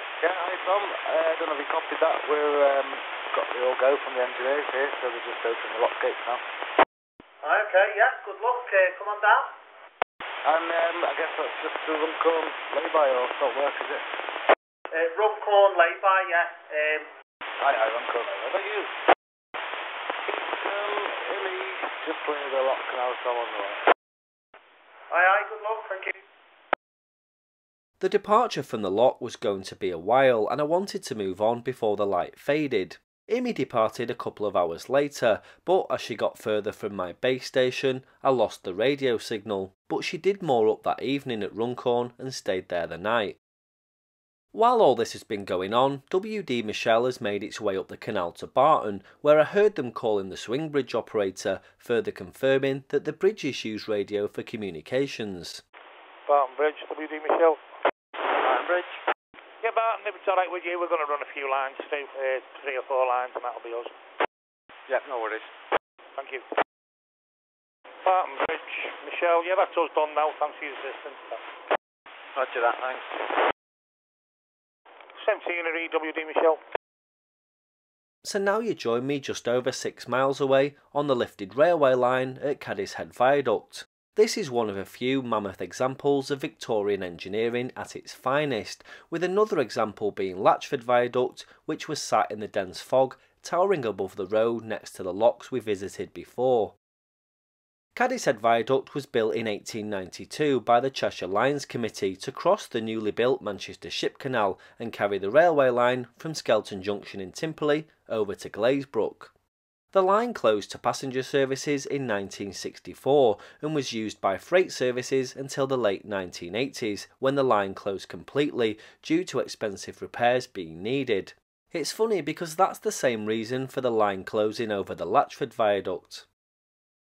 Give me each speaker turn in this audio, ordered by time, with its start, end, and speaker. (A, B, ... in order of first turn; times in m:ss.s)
0:00.2-0:06.4 A
0:07.4-0:09.5 B
0:10.4-0:14.1 A
0:14.9-0:17.1 B
0:17.6-0:18.9 A
0:20.2-0:23.8 A
0:25.1-0:26.2 B
0:28.0-0:43.4 C
0:44.5-0:55.6 C
0:56.3-0:57.6 D
0:58.3-0:59.0 A
0:59.6-1:03.9 D
1:04.9-1:05.5 A
1:06.2-1:06.4 D
1:08.0-1:11.4 D
1:12.4-1:13.0 A
1:15.2-1:16.6 D
1:18.2-1:36.8 C
1:38.0-1:49.3 C
1:49.9-2:06.3 C